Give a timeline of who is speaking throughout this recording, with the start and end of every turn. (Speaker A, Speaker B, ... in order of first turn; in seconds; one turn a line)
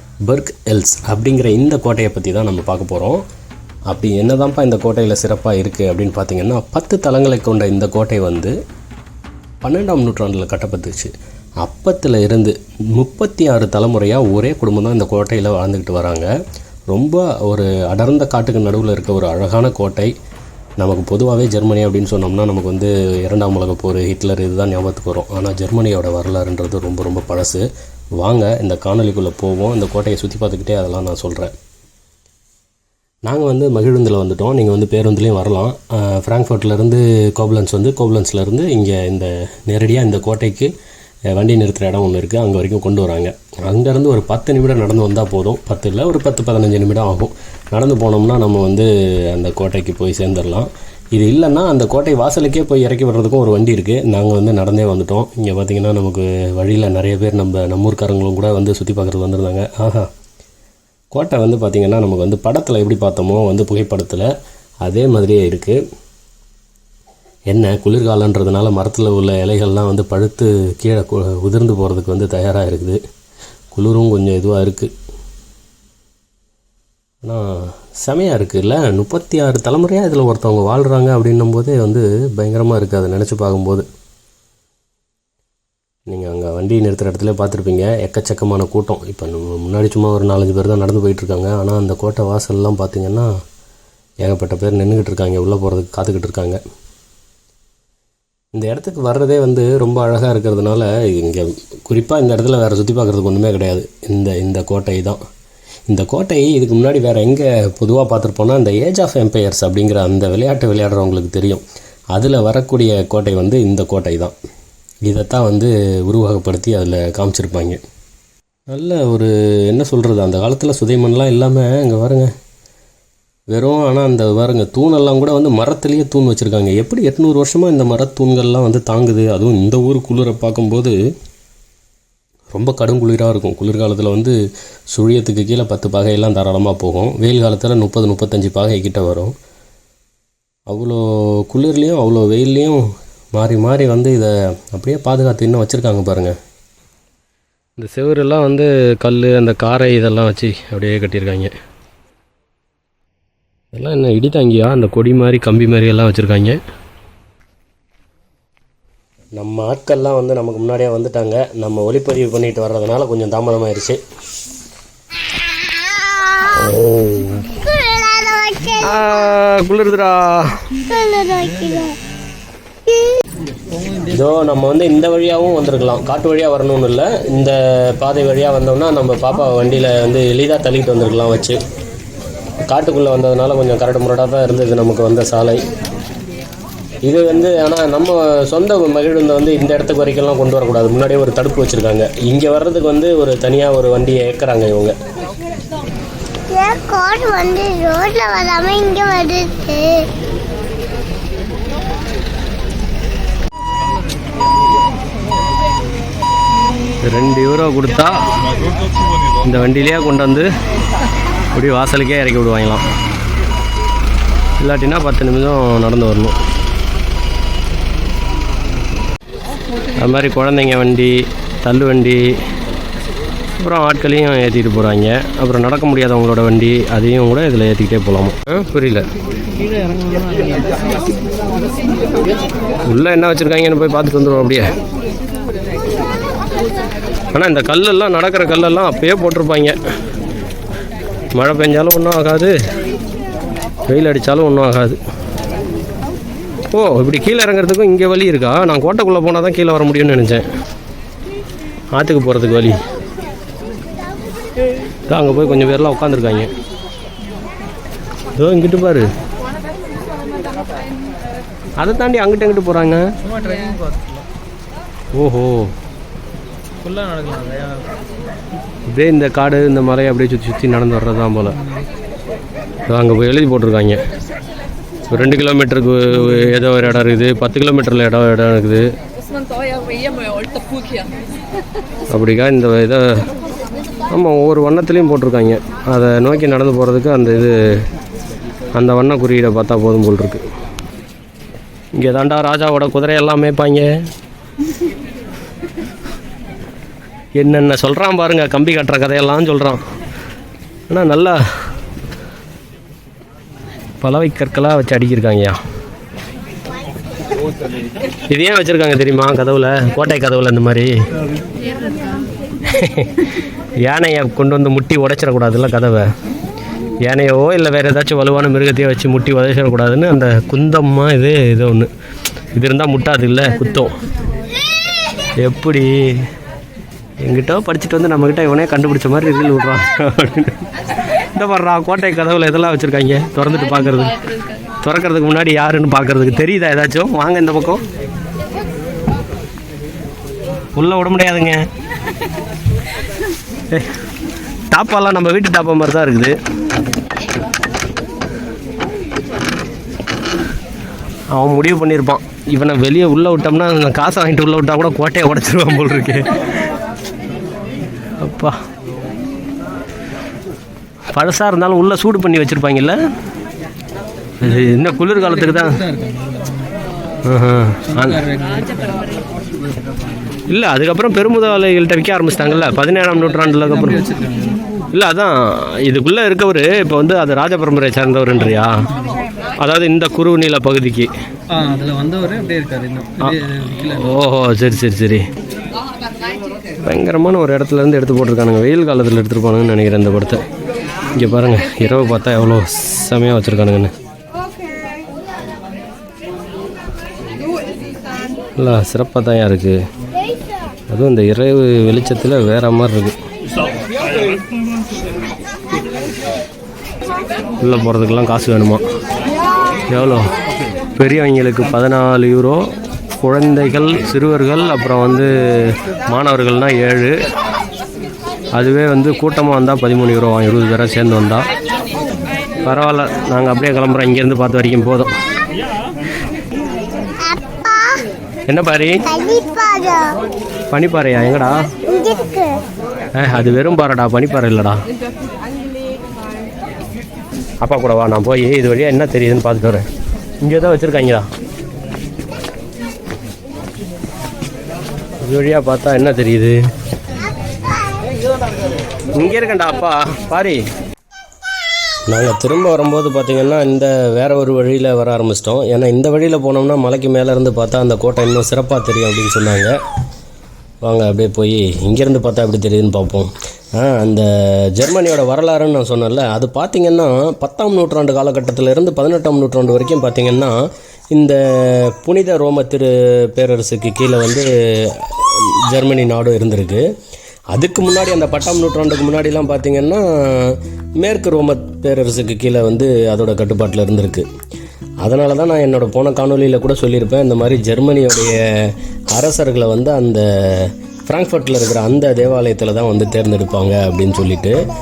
Speaker A: 0.3-3.2
Speaker A: 3.9-8.5
Speaker A: 9.6-11.1
Speaker A: 11.6-16.3
Speaker A: 16.9-20.1
Speaker A: 20.8-27.6
Speaker A: 28.2-31.5
Speaker A: 33.3-40.7
Speaker A: 41.3-60.1
Speaker A: 61.1-64.3
Speaker A: 64.8-65.8
Speaker A: 67.5-73.0
Speaker A: 73.7-74.9
Speaker A: 77.2-83.8
Speaker A: 86.1-93.3
Speaker A: 94.2-96.6
Speaker A: 98.6-105.2
Speaker A: 105.9-111.6
Speaker A: 112.1-114.3
Speaker A: 115.1-117.8
Speaker A: 118.7-122.3
Speaker A: 123.5-130.9
Speaker A: 132.5-134.4
Speaker A: 134.9-139.3
Speaker A: 140.7-142.8
Speaker A: 143.3-146.3
Speaker A: 147.8-151.5
Speaker A: 153.7-156.6
Speaker A: 159.4-164.0
Speaker A: 166.5-167.6
Speaker B: 167.7-168.8
Speaker A: 168.7-170.7
Speaker B: 170.9-172.0
Speaker A: 174.1-181.6
Speaker A: 182.7-185.6
Speaker A: 187.1-194.9
Speaker B: 196.5-200.1
Speaker A: 207.1-208.2
Speaker A: 209.4-210.5
Speaker A: 211.5-212.8
Speaker A: 214.6-216.4
Speaker A: 220.0-222.2
Speaker A: 223.6-229.1
Speaker C: 229.6-230.8
Speaker A: 232.9-234.7
Speaker A: 237.3-239.8
Speaker A: 241.4-242.5
Speaker A: 243.9-245.0
Speaker A: 246.7-250.4
Speaker A: 251.9-252.8
Speaker A: 255.1-256.5
Speaker A: 258.4-259.1
Speaker A: 261.8-263.1
Speaker C: 263.4-264.0
Speaker A: 265.1-265.7
Speaker C: 266.9-267.8
Speaker A: 268.9-271.6
Speaker A: 272.9-274.0
Speaker A: 275.1-278.9
Speaker A: 282.1-283.1
Speaker A: 284.1-287.8
Speaker A: 288.8-290.4
Speaker A: 292.0-293.9
Speaker A: 297.4-299.8
Speaker A: 300.9-301.4
Speaker A: 304.0-305.6
Speaker A: 308.3-310.9
Speaker A: 312.7-313.3
Speaker A: 313.9-316.1
Speaker A: 317.1-321.9
Speaker A: 322.6-323.9
Speaker A: 325.4-326.2
Speaker A: 327.2-330.6
Speaker A: 331.4-334.2
Speaker A: 334.8-337.8
Speaker A: 340.8-341.6
Speaker A: 344.7-346.4
Speaker A: 351.3-356.4
Speaker A: 358.2-358.6
Speaker A: 361.1-363.0
Speaker A: 364.4-365.9
Speaker C: 365.9-366.7
Speaker A: 367.2-368.3
Speaker C: 368.2-368.9
Speaker A: 370.5-374.1
Speaker C: 374.1-374.6
Speaker A: 374.9-378.8
Speaker A: 379.6-381.1
Speaker C: 381.5-383.9
Speaker A: 383.2-385.2
Speaker A: 386.9-390.4
Speaker A: 391.1-393.9
Speaker A: 398.6-399.8
Speaker A: 400.9-403.2
Speaker A: 407.6-408.8
Speaker A: 409.9-410.3
Speaker A: 411.0-412.7
Speaker A: 413.2-417.2
Speaker A: 418.6-421.5
Speaker A: 422.6-425.1
Speaker B: 427.3-428.0
Speaker A: 428.5-429.1
Speaker B: 429.1-430.2
Speaker A: 430.7-431.6
Speaker B: 431.9-432.6
Speaker A: 433.2-434.8
Speaker A: 437.6-439.9
Speaker A: 440.4-441.3
Speaker A: 445.2-446.6
Speaker A: 449.2-450.6
Speaker A: 452.1-459.7
Speaker A: 460.8-470.5
Speaker A: 471.1-476.8
Speaker A: 477.5-484.3
Speaker A: 485.0-494.6